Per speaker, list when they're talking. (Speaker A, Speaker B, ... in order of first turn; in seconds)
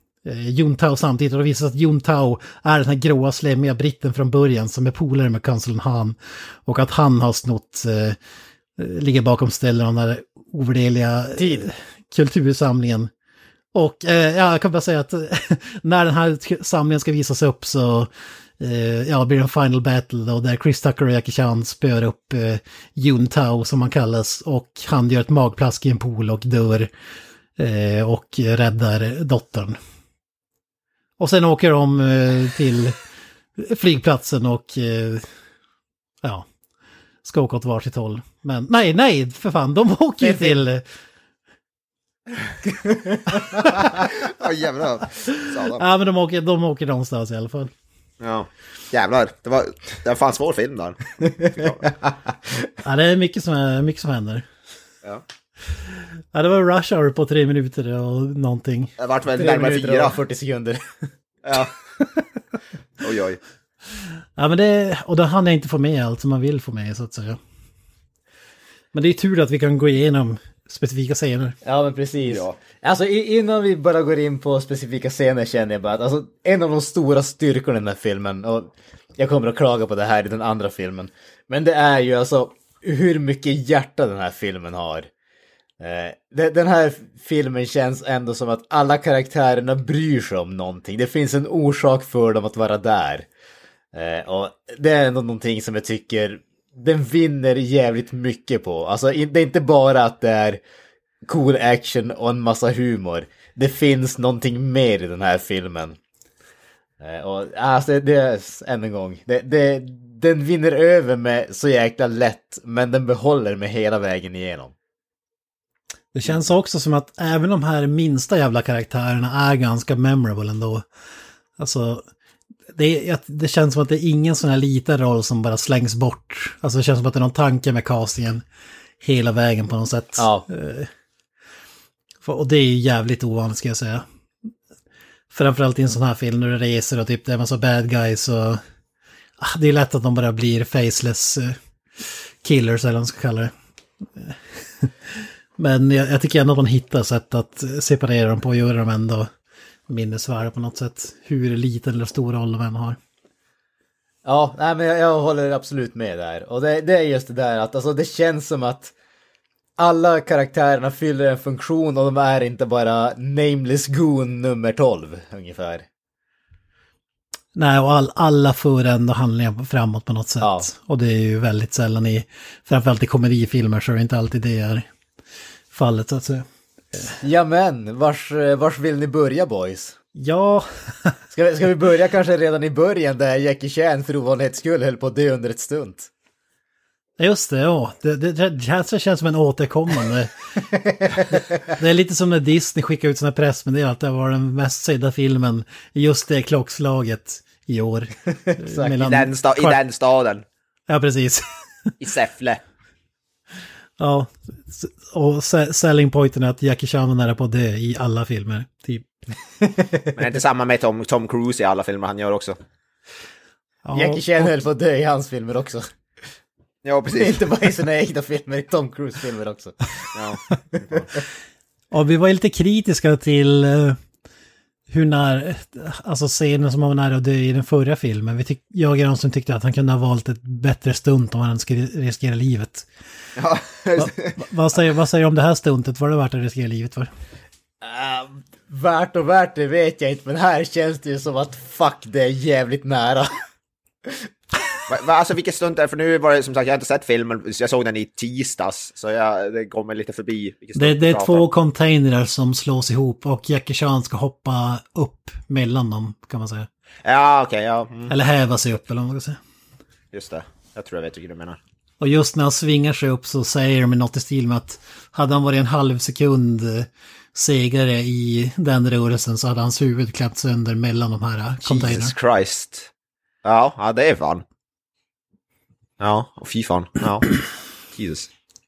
Speaker A: 0.2-8.2, 8.8-13.1, 13.7-26.9, 27.6-29.8, 31.2-33.0, 33.6-35.3, 37.2-40.8, 45.7-47.7, 52.8-54.5, 56.3-58.9, 64.4-67.4, 68.9-71.5, 116.1-120.8, 121.6-122.0, 122.7-128.4, 129.0-130.9, 132.2-134.0, 135.3-138.6, 139.4-143.5, 144.2-144.9, 145.6-149.3, 149.9-153.0, 167.6-174.8, 175.7-176.4, 180.2-181.2, 187.2-190.3, 191.7-199.8, 200.9-201.9, 204.0-209.1, 213.8-214.5, 221.9-224.0, 224.9-232.9, 233.9-237.1, 250.8-256.7, 258.1-259.4, 262.0-272.1
Speaker B: 11.3-11.7, 40.2-40.6, 42.7-43.6, 59.3-61.0, 71.6-85.1, 85.8-93.3, 93.9-100.6, 101.2-106.0, 107.0-114.7, 130.2-130.4, 154.2-158.9, 159.8-165.8, 170.4-170.7, 177.2-180.0, 181.3-186.1, 190.8-191.3, 198.5-198.9, 209.6-210.1, 213.9-215.9, 217.1-220.1, 237.8-243.4
Speaker C: 43.6-45.8, 48.2-51.9, 59.0-60.2, 61.4-61.7, 63.0-63.4, 72.3-72.5, 199.0-200.4, 202.0-202.6, 210.1-212.6, 216.8-217.4, 220.1-221.1, 233.4-234.4, 244.9-251.4, 257.0-258.1, 260.1-261.6, 271.6-272.9, 273.4-274.4, 276.0-277.4, 277.9-278.3